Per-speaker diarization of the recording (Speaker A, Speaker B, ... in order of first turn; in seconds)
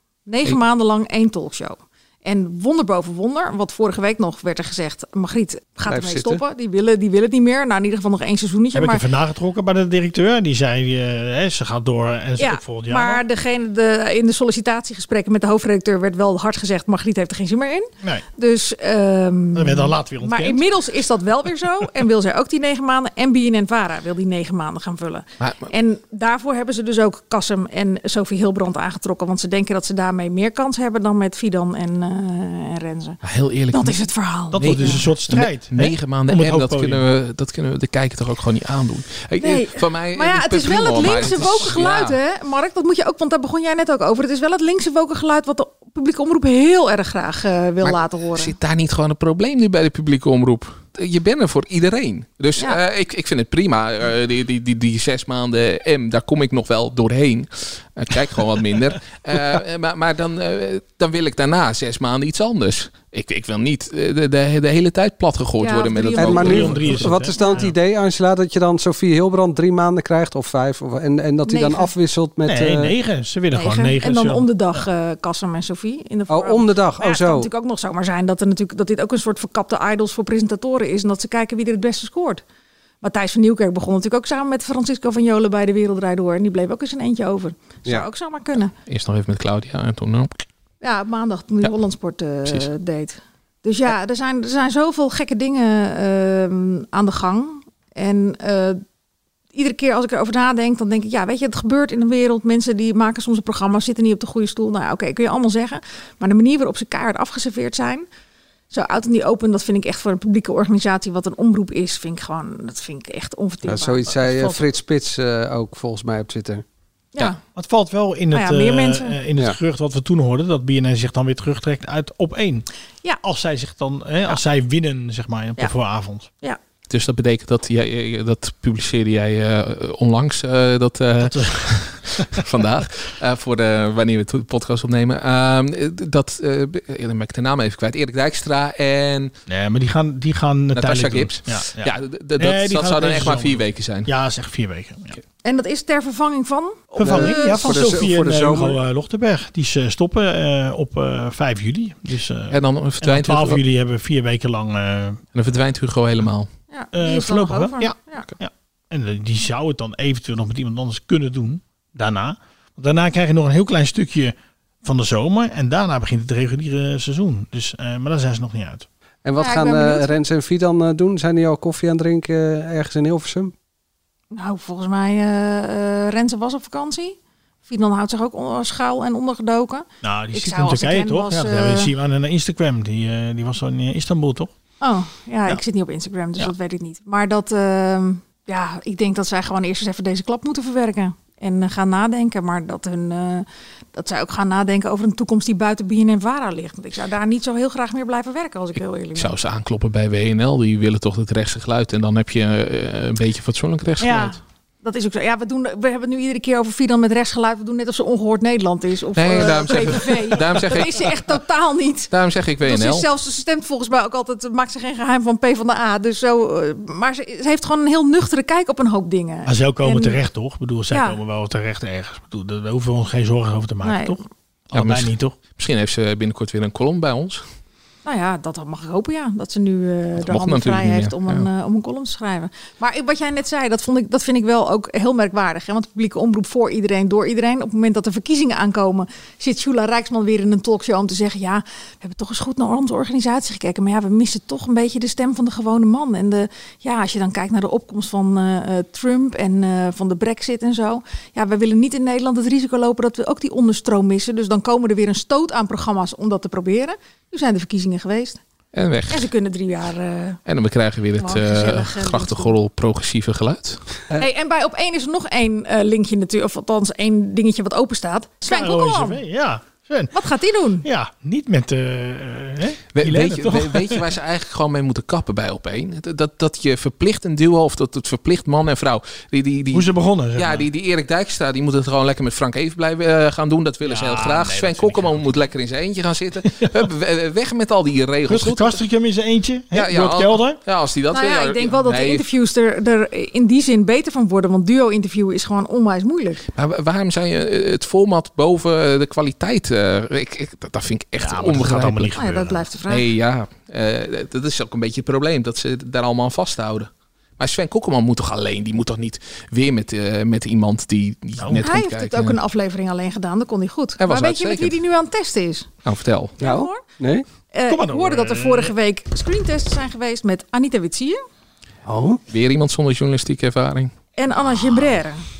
Speaker A: 0.3-9.0, 12.4-33.2, 33.7-35.1, 39.4-48.5, 65.6-67.6, 71.5-71.9, 73.5-82.4, 83.0-88.7, 90.8-98.8, 99.5-108.0, 108.7-114.6, 117.1-117.4, 118.3-119.2, 145.4-148.0, 156.7-158.3, 169.4-170.1, 174.3-181.9, 184.8-199.3, 204.0-212.1, 212.6-220.2, 220.9-221.2, 223.8-224.2, 228.0-258.4, 259.1-260.4, 261.2-262.5, 264.1-269.2, 270.1-270.8, 291.1-296.4, 302.1-303.0, 311.6-315.7, 316.4-316.8, 317.5-321.2, 324.2-325.2
Speaker B: 5.9-6.4, 66.0-72.9, 76.3-77.5, 113.6-116.6, 147.0-148.8, 169.2-173.5, 316.4-317.2, 321.9-322.2
Speaker C: 8.7-13.2, 19.5-20.7, 34.5-37.0, 66.3-67.7, 72.5-74.8, 117.5-122.7, 123.2-126.3, 131.2-132.4, 139.5-145.2, 146.9-155.2, 156.9-168.9, 180.0-184.5, 219.4-225.3, 268.4-270.1, 270.8-274.0, 279.7-280.6, 283.8-285.4, 288.3-290.6, 301.2-302.6, 311.4-311.6, 317.7-318.7
Speaker D: 25.4-25.7, 33.2-34.0, 34.5-42.2, 47.8-66.9, 88.9-90.3, 126.9-139.3, 140.7-144.1, 152.5-153.6, 155.3-156.5, 199.2-204.4, 209.2-211.1, 212.1-213.1, 224.7-227.4, 230.2-231.4, 258.7-259.3, 260.4-264.0, 272.9-288.9, 289.7-292.2, 296.6-302.1, 302.9-312.4, 314.0-314.8, 315.8-316.4, 322.3-323.9